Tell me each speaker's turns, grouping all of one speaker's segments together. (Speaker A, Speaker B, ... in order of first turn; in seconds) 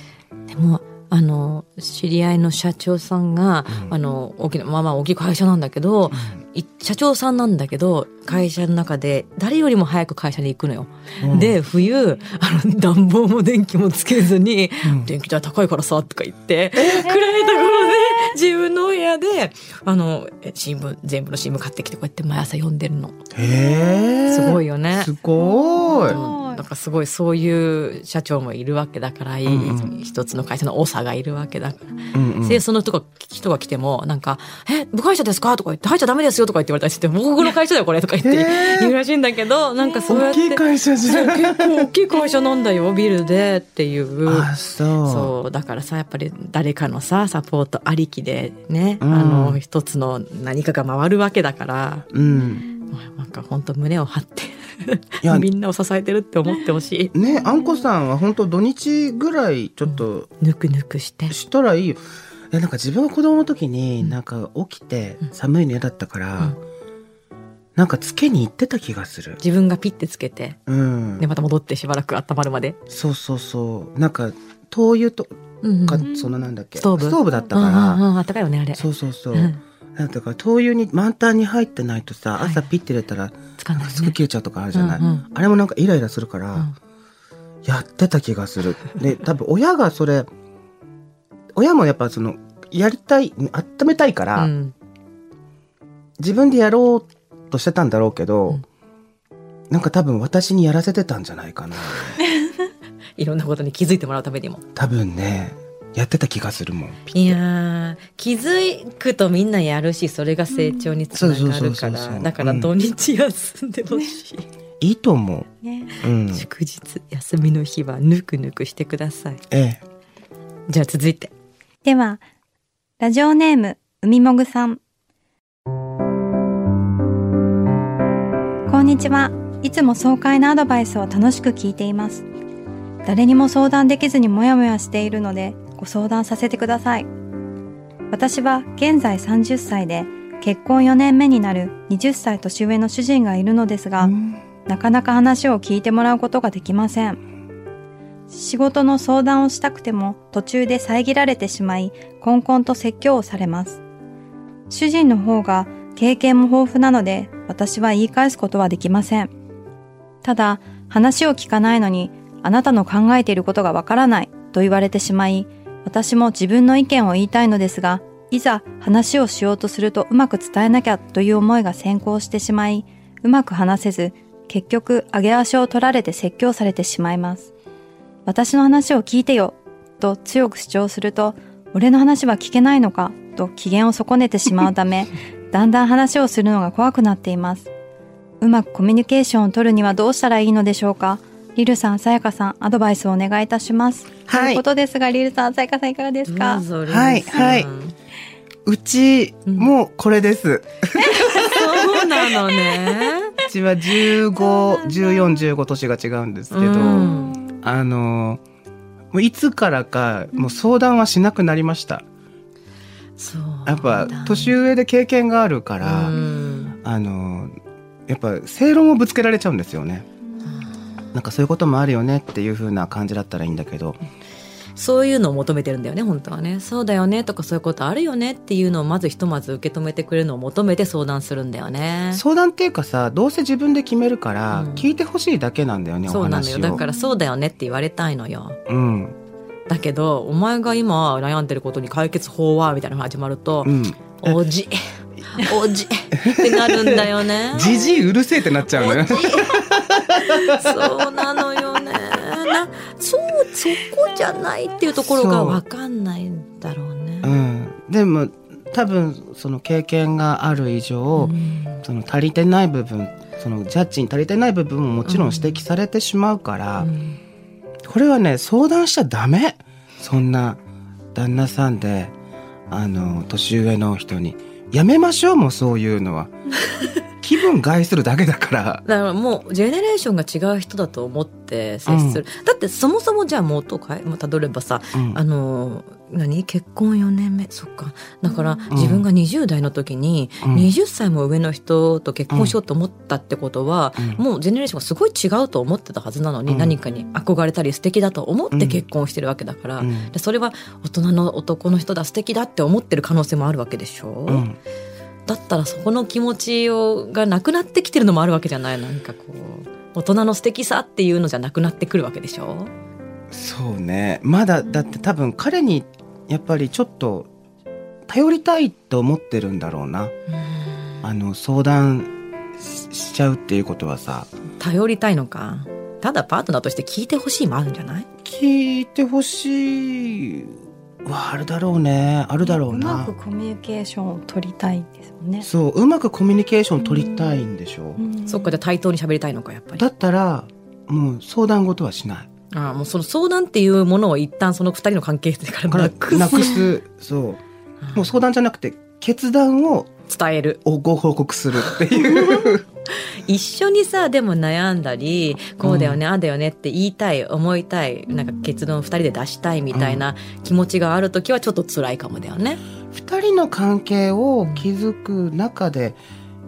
Speaker A: 0.5-23.1, 24.3-25.1, 26.0-44.5, 45.0-52.1, 52.9-57.1, 59.9-61.4, 69.4-70.6, 71.2-72.8, 75.6-76.1, 76.8-79.6, 82.4-82.7, 83.6-84.2, 84.7-85.3, 94.4-94.7, 103.2-104.6, 107.1-114.5, 116.3-119.4, 120.7-121.3, 196.2-197.9, 201.3-203.4, 206.5-207.4, 213.2-214.6, 215.8-216.8, 220.5-220.8, 224.8-232.2, 234.5-234.9, 236.1-238.6, 239.7-247.8, 248.7-257.4, 261.2-261.8, 265.1-265.7, 266.8-267.2, 278.9-304.4, 305.3-312.7, 320.5-321.0, 324.6-328.1, 338.3-339.8, 342.5-346.6, 347.8-348.1, 350.1-350.6, 353.1-362.6
Speaker B: 6.1-6.4, 11.2-11.6, 14.8-15.1, 16.8-17.2, 23.3-26.2, 29.4-29.9, 32.1-32.6, 38.2-39.0, 40.1-41.9, 44.2-45.3, 49.0-49.6, 52.1-52.7, 55.2-55.5, 57.1-60.3, 61.3-66.6, 67.8-69.4, 70.7-71.3, 72.9-75.3, 75.8-78.0, 78.8-86.7, 87.7-90.3, 91.5-94.5, 96.2-98.6, 99.7-102.2, 104.8-107.4, 111.1-112.7, 114.8-115.5, 116.0-116.5, 119.5-119.8, 144.0-144.4, 194.3-194.6, 196.9-197.7, 198.7-202.0, 203.4-208.4, 209.1-212.0, 213.7-216.2, 216.8-217.6, 218.1-220.1, 221.1-224.0, 232.1-236.8, 238.7-239.2, 243.7-244.4, 246.2-251.0, 254.9-255.6, 257.2-266.9, 267.9-270.6, 271.1-272.1, 272.7-276.4, 277.1-278.8, 281.9-282.2, 284.9-285.2, 288.7-289.1, 290.4-290.7, 292.3-292.6, 294.0-294.2, 296.5-296.8, 298.5-298.8, 299.8-300.1, 304.3-304.6, 313.3-317.3, 318.1-320.1, 321.0-324.3, 328.2-333.1, 335.4-338.0, 339.8-342.3, 345.7-347.4, 347.9-349.9, 350.6-352.6, 355.6-356.0, 359.7-360.0, 362.9-366.0
Speaker C: 23.5-23.9, 25.4-26.6, 52.6-52.9, 57.2-57.6, 110.5-111.0, 115.6-115.9, 121.8-122.2, 123.0-124.8, 128.7-132.3, 133.1-137.1, 138.1-144.1, 144.7-147.2, 148.3-153.8, 154.7-159.3, 160.2-177.5, 178.3-187.7, 188.4-196.7, 204.5-205.2, 207.2-207.5, 236.8-237.1, 332.4-335.5, 336.8-338.6